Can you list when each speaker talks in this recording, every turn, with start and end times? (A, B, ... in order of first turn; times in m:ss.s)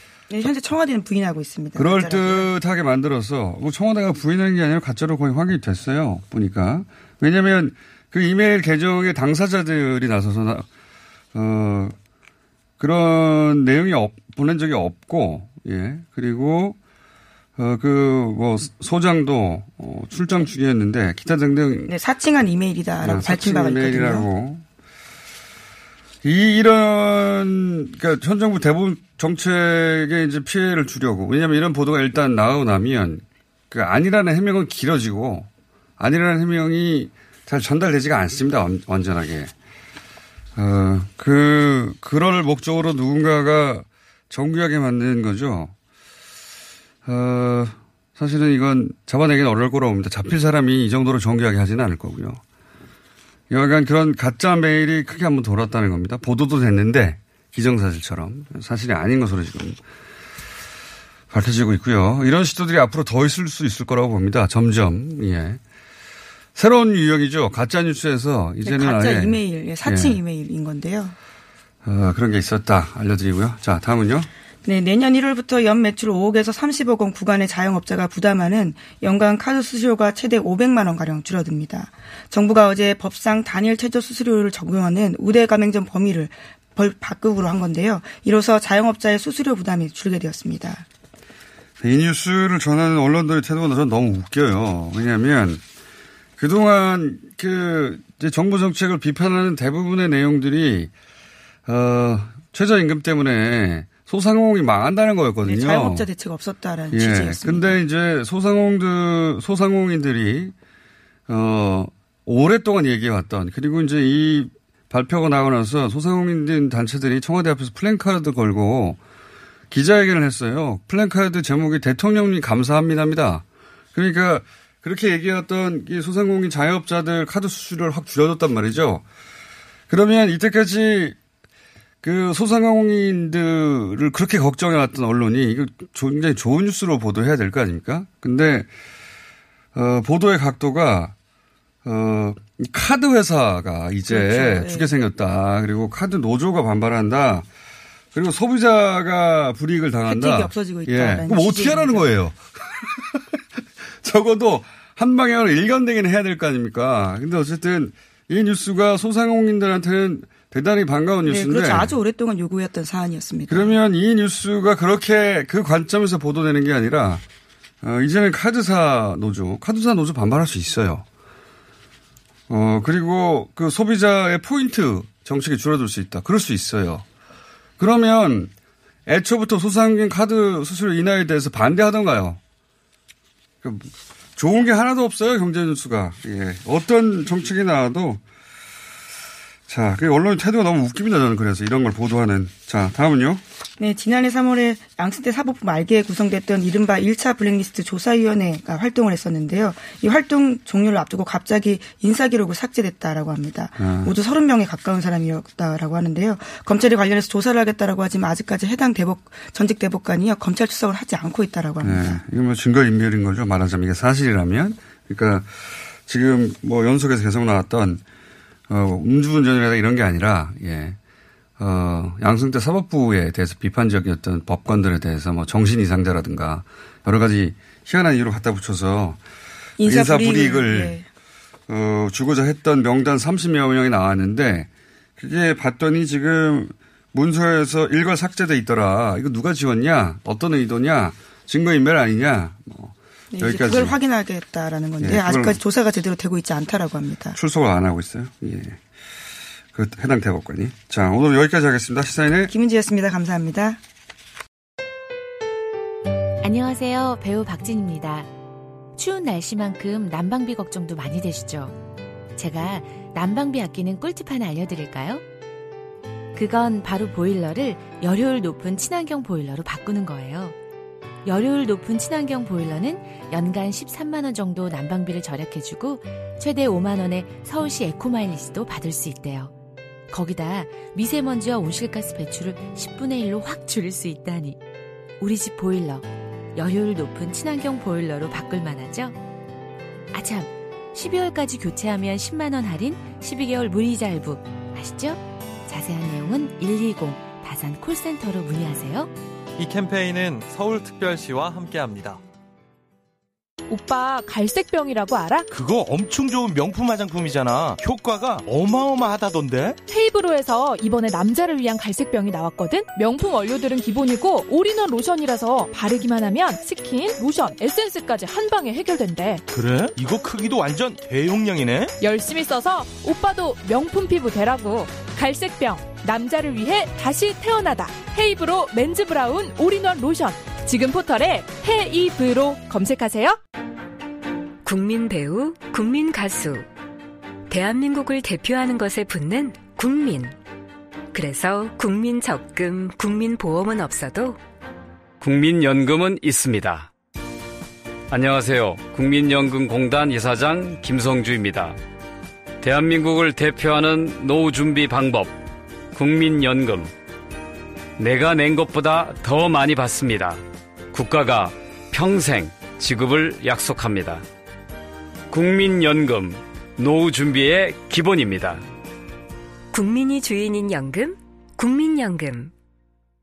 0:00.3-0:02.5 A
0:01.8-0:10.7 B
0:11.3-0:12.0 B
0:12.8-0:16.8 B
0:17.6-0:21.9 B
0:21.9-0:24.3 A
0:23.0-0:24.6 B
0:26.2-0:39.5 B
0:40.6-0:45.7 B
0:47.0-0:52.4 B
0:53.5-0:59.8 B
1:01.3-1:05.6 B
1:06.6-1:10.2 B
1:08.6-1:11.2 A
1:11.8-1:14.3 B
1:14.6-1:30.8 A
1:31.8-1:35.6 B
1:36.4-1:40.9 B
1:41.7-1:46.1 B
1:45.4-1:47.8 A
1:46.9-1:50.5 B
1:51.3-1:59.0 B
1:59.7-2:09.0 B
2:09.9-2:11.2 B
2:12.0-2:18.7 B
2:19.8-2:21.1 B
2:21.8-2:27.5 B
2:24.1-2:24.9 A
2:28.1-2:33.2 B
2:30.1-2:32.1 A
2:34.0-2:41.9 B
2:41.2-2:43.8 A
2:43.5-2:47.2 B
2:47.8-2:51.0 B
2:52.5-2:57.0 B
2:57.8-2:58.5 B
2:59.1-3:02.4 B
3:03.6-3:08.2 B
3:09.7-3:13.4 B
3:13.8-3:32.2 A
3:23.8-3:24.1 B
3:31.8-3:38.0 B
3:38.7-3:41.0 B
3:41.6-3:49.2 B
3:49.8-3:51.0 A
3:49.8-3:51.0 B
3:51.7-4:04.0 B
4:03.3-4:07.4 A
4:05.0-4:05.6 B
4:07.4-4:08.8 B
4:09.7-4:12.5 B
4:12.5-4:13.8 A
4:16.4-4:18.3 C
4:19.0-4:21.8 C
4:22.4-4:25.2 C
4:26.4-4:30.6 C
4:31.2-4:39.5 C
4:40.1-4:44.6 C
4:45.2-4:49.2 C
4:50.1-4:59.1 C
4:59.6-5:02.1 D
5:03.7-5:05.5 E
5:05.5-5:09.8 F
5:09.9-5:19.4 E
5:19.5-5:21.9 F
5:22.0-5:33.4 E
5:34.6-5:36.7 G
5:37.5-5:40.4 G
5:41.1-5:44.4 G
5:45.2-5:46.9 H
5:48.1-5:51.8 H
5:52.6-5:55.4 H
5:55.9-5:56.9 H
5:58.0-6:00.4 H
6:00.9-6:04.2 H
6:05.3-6:08.6 H
6:09.7-6:12.5 G